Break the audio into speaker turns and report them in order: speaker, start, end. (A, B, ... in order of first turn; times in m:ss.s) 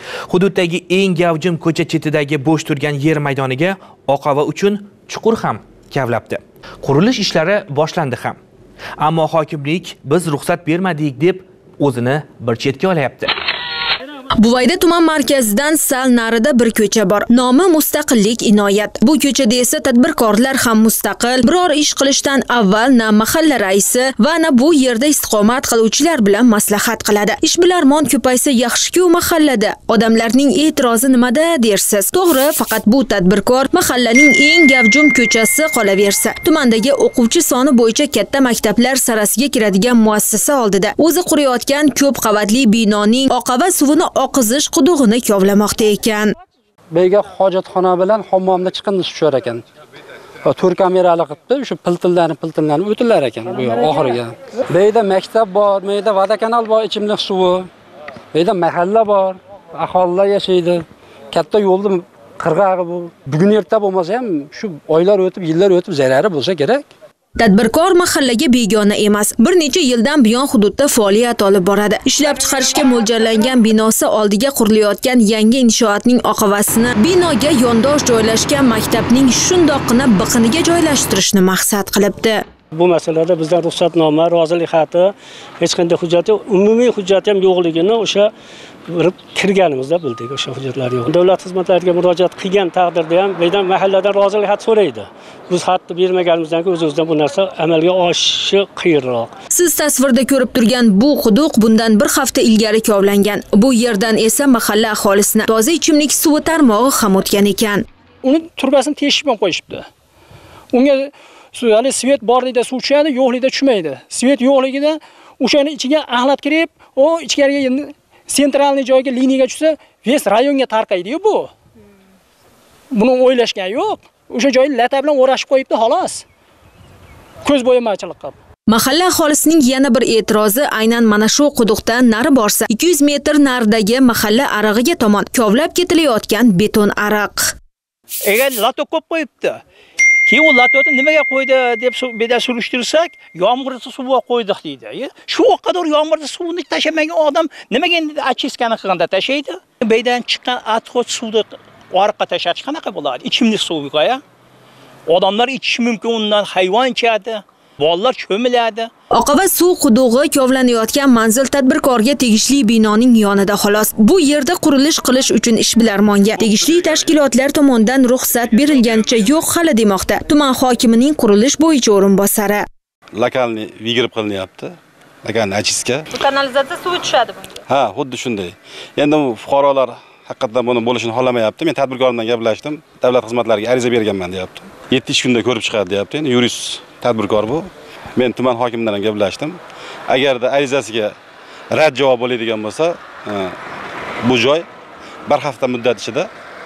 0:00.3-0:08.4 A
0:09.0-0:13.3 A
0:14.4-0:46.3 B
0:46.9-0:49.6 C
0:50.5-0:57.7 C
0:58.3-1:06.9 C
1:07.4-1:22.4 B
1:22.8-1:25.1 D
1:25.6-1:28.3 D
1:28.9-1:39.3 D
1:39.5-1:47.8 B
1:48.2-1:49.9 D
1:50.7-2:01.5 D
2:02.9-2:06.2 D
2:07.4-2:08.3 D
2:08.7-2:17.6 B
2:18.2-2:19.6 E
2:20.3-2:34.2 E
2:35.1-2:38.9 E
2:39.1-2:52.6 B
2:53.2-2:56.0 F
2:56.1-2:57.6 B
2:57.7-3:09.6 F
3:10.1-3:11.1 F
3:11.7-3:13.6 F
3:14.2-3:14.7 F
3:15.3-3:16.3 F